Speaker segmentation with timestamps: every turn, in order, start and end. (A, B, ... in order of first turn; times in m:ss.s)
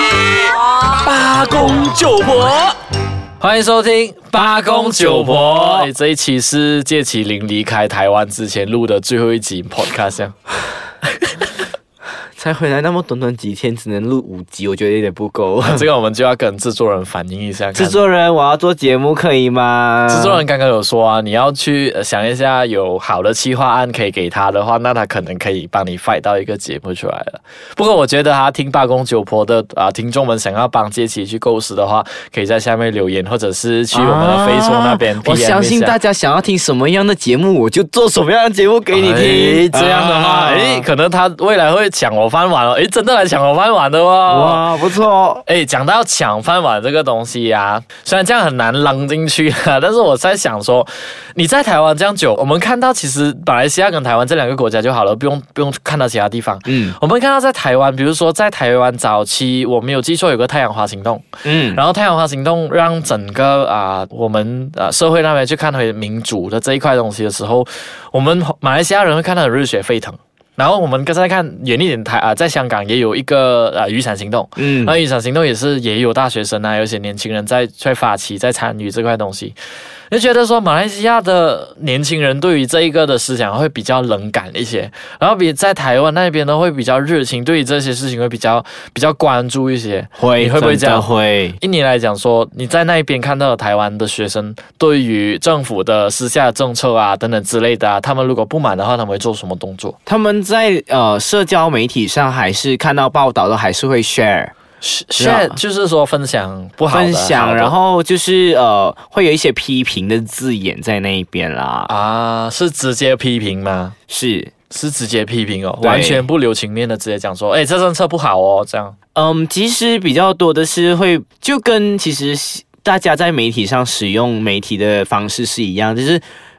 0:00.8-0:02.6 A
0:03.4-0:10.3 B
0:04.4-0:05.9 A
0:12.4-0:15.8 A
0:15.6-0:18.0 B
0:17.7-0:20.4 A
0:20.1-0:36.0 B
0:33.9-0:40.9 A
0:38.9-0:44.6 B
0:44.3-0:45.4 A
0:45.4-1:19.6 B
0:56.6-0:57.0 A
1:01.4-1:01.8 A
1:14.6-1:15.0 A
1:20.1-1:31.1 B
1:30.2-1:31.6 A
1:31.6-1:40.0 B
1:40.0-1:44.5 A
1:44.8-1:47.7 B
1:45.2-1:45.6 A
1:46.9-1:51.9 A
1:51.9-1:53.9 B
1:54.1-1:54.5 A
1:54.7-1:58.9 B
1:55.8-1:56.3 A
1:59.1-2:06.2 A